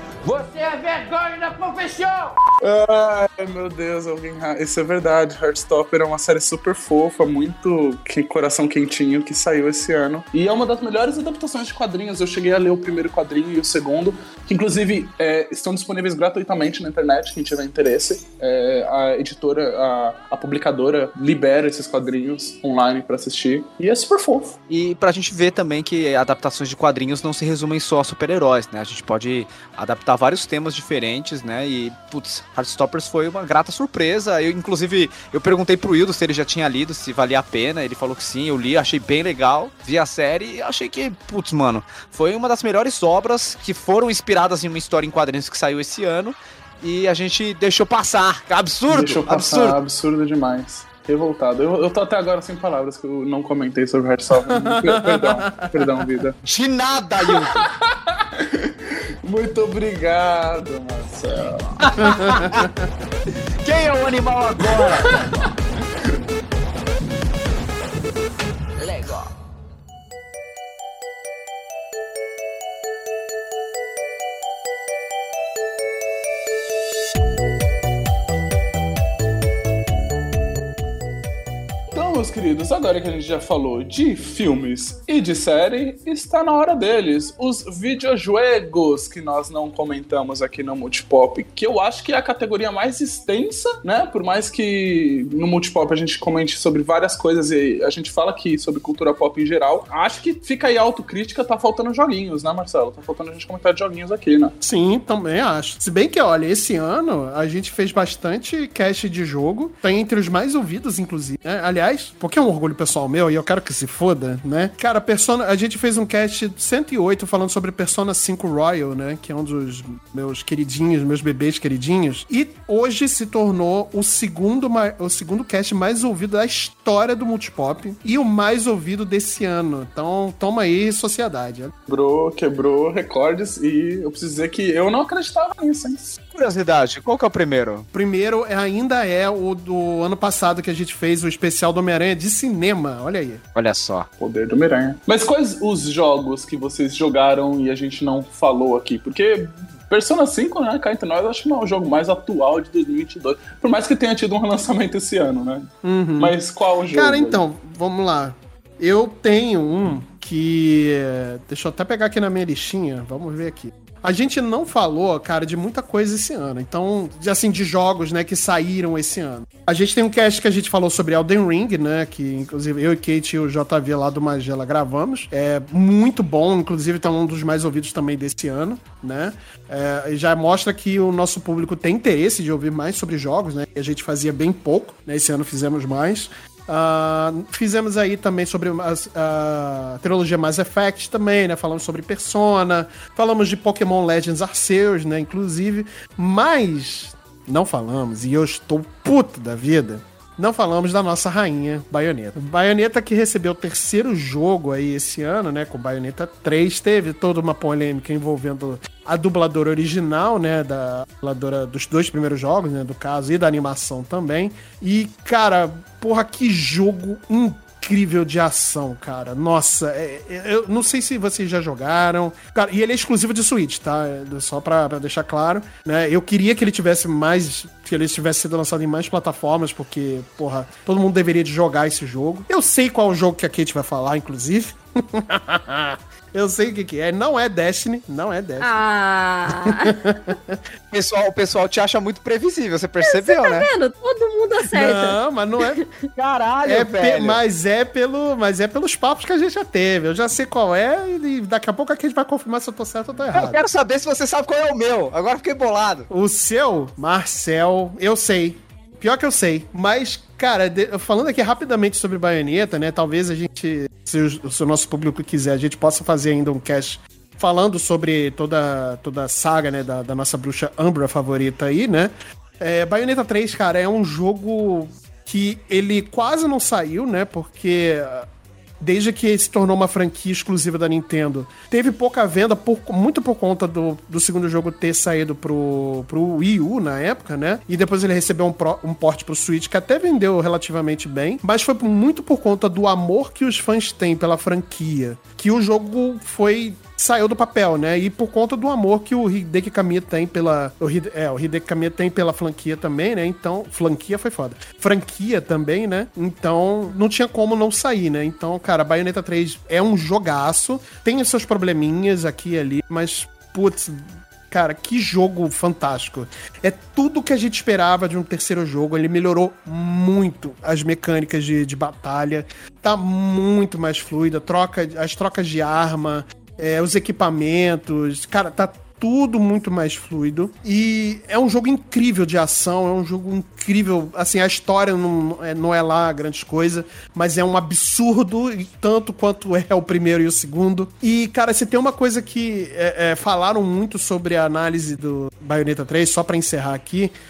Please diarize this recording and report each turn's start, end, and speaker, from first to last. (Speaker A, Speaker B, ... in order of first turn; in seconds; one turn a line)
Speaker A: 0.2-2.3
Speaker B: 2.6-24.6
Speaker C: 24.7-49.8
Speaker B: 48.9-56.4
Speaker D: 54.5-56.2
Speaker C: 56.4-57.6
Speaker B: 57.2-61.9
Speaker C: 61.8-62.7
Speaker D: 62.0-62.8
Speaker C: 63.6-65.3
Speaker B: 64.7-65.5
Speaker A: 68.8-69.2
Speaker B: 81.9-104.5
Speaker D: 104.6-131.7
Speaker B: 131.9-136.2
Speaker C: 136.3-137.9
Speaker D: 137.9-143.4
Speaker C: 143.5-144.1
Speaker B: 144.2-157.4
Speaker D: 155.8-156.4
Speaker D: 156.9-238.8
Speaker E: 238.6-239.9
Speaker D: 239.6-240.6
Speaker C: 240.9-243.7
Speaker E: 243.0-245.9
Speaker D: 244.6-245.8
Speaker C: 246.2-247.4
Speaker D: 246.6-253.6
Speaker C: 253.3-256.1
Speaker D: 256.1-278.3
Speaker D: 278.8-347.1